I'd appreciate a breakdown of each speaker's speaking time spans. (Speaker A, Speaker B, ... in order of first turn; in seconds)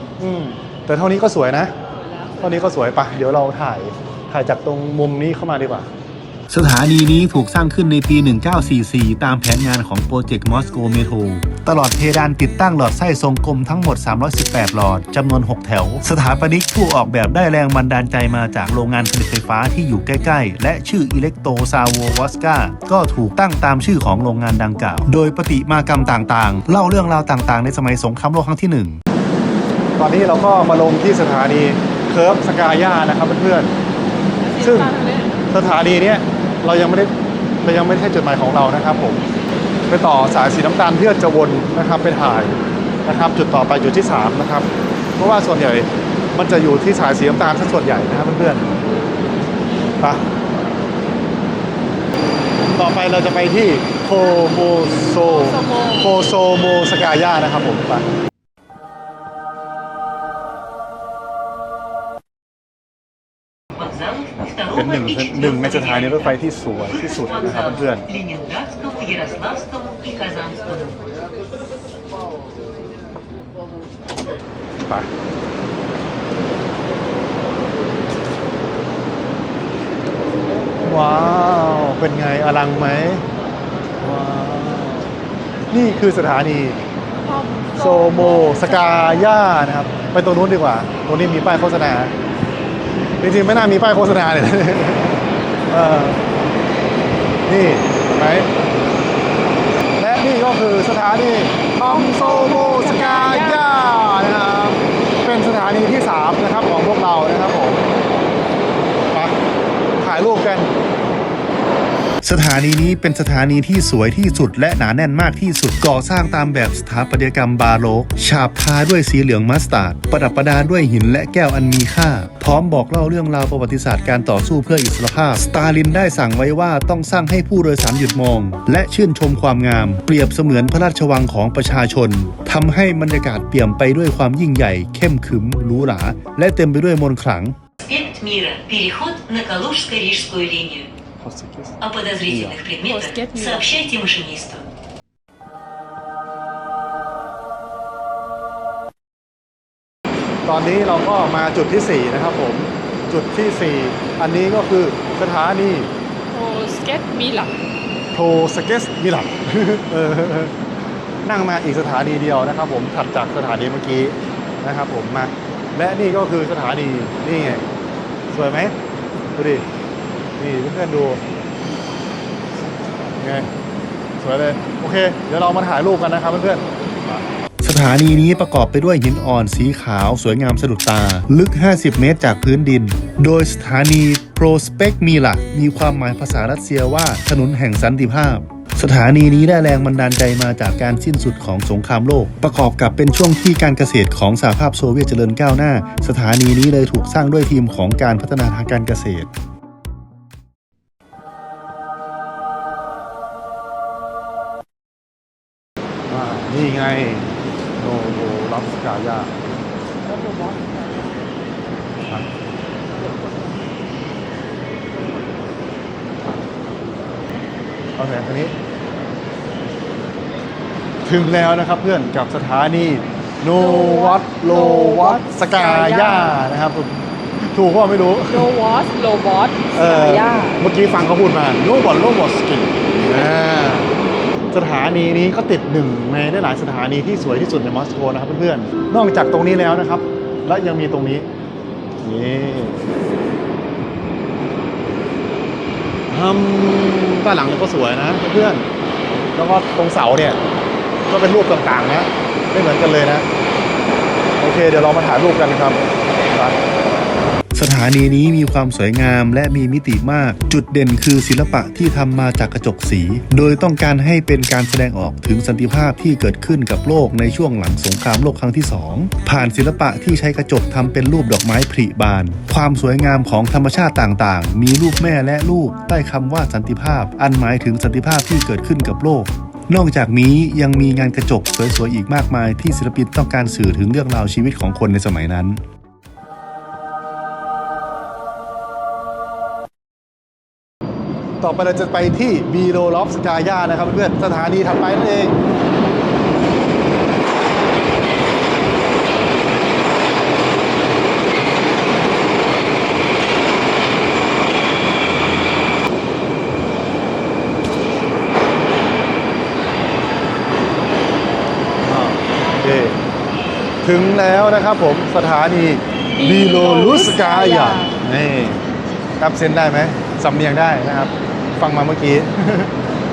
Speaker A: 0.2-1.7, 2.4-5.9, 30.0-33.7, 34.6-34.9, 35.5-37.1, 37.6-39.2, 39.9-48.7, 52.7-58.0, 64.7-68.1, 80.8-83.2, 84.0-85.1, 85.7-86.8, 87.8-92.1, 93.2-96.2, 97.5-98.5, 100.0-107.8, 109.1-109.4, 110.0-110.7, 141.2-142.6, 150.4-155.9, 158.1-160.5, 161.2-167.6, 168.3-168.7, 169.3-169.6, 170.4-171.2, 173.2-173.5, 174.2-177.2, 206.1-209.4, 218.0-218.5, 221.0-228.5, 229.7-233.9, 234.5-241.3, 242.0-242.9, 246.1-248.7, 249.3-250.4, 251.1-253.3, 254.4-256.6, 291.4-295.3, 311.8-312.9, 313.8-318.6, 319.2-322.7
Speaker B: 1.9-2.8, 34.4-35.4, 55.2-56.2, 87.1-89.3, 101.8-103.6, 142.8-143.7, 156.3-157.6, 210.0-211.2, 213.1-213.5, 223.4-226.4, 228.3-230.6, 233.1-233.5, 316.1-318.0
Speaker C: 6.5-29.0, 112.2-137.6, 177.6-199.3, 257.5-285.6
Speaker D: 63.8-66.2, 67.5-71.0, 137.8-140.9, 141.8-144.7